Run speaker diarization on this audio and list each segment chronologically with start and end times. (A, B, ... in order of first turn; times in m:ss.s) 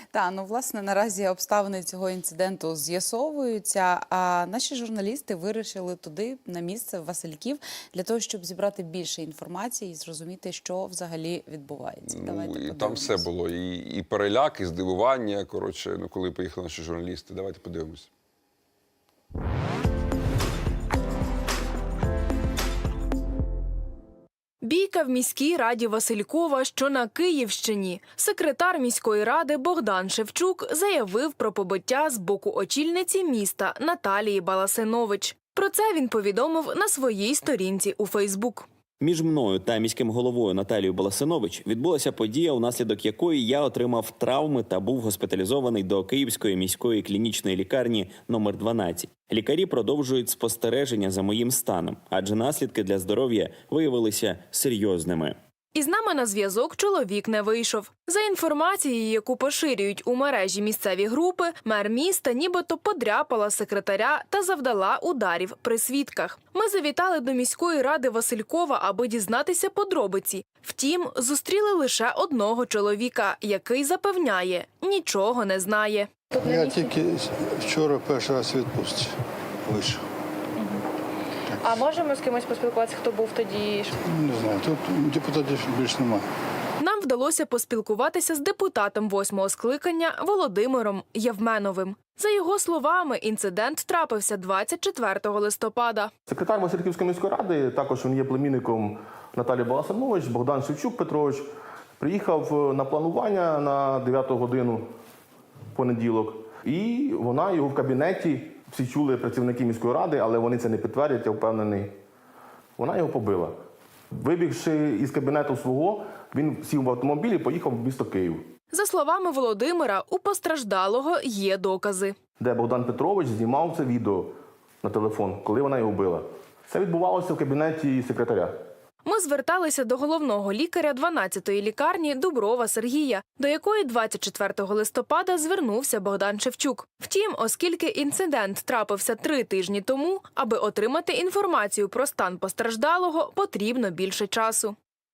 0:00.1-0:13.3 A
0:12.0-0:18.1 B
0:24.6-0:38.6 C
0:39.0-0:55.4 D
0:55.7-1:16.1 C
1:16.3-1:16.9 E
1:16.4-1:20.0 F
1:21.5-1:21.9 F
1:21.6-1:23.9 E
1:24.0-1:26.2 F
1:26.8-1:36.1 C
1:36.3-1:41.4 G
1:42.0-1:44.8 G
1:45.7-1:51.9 G
1:52.8-1:53.6 G
1:54.1-1:58.4 G
1:58.7-2:02.1 C
2:02.4-2:08.5 G
2:09.0-2:24.8 C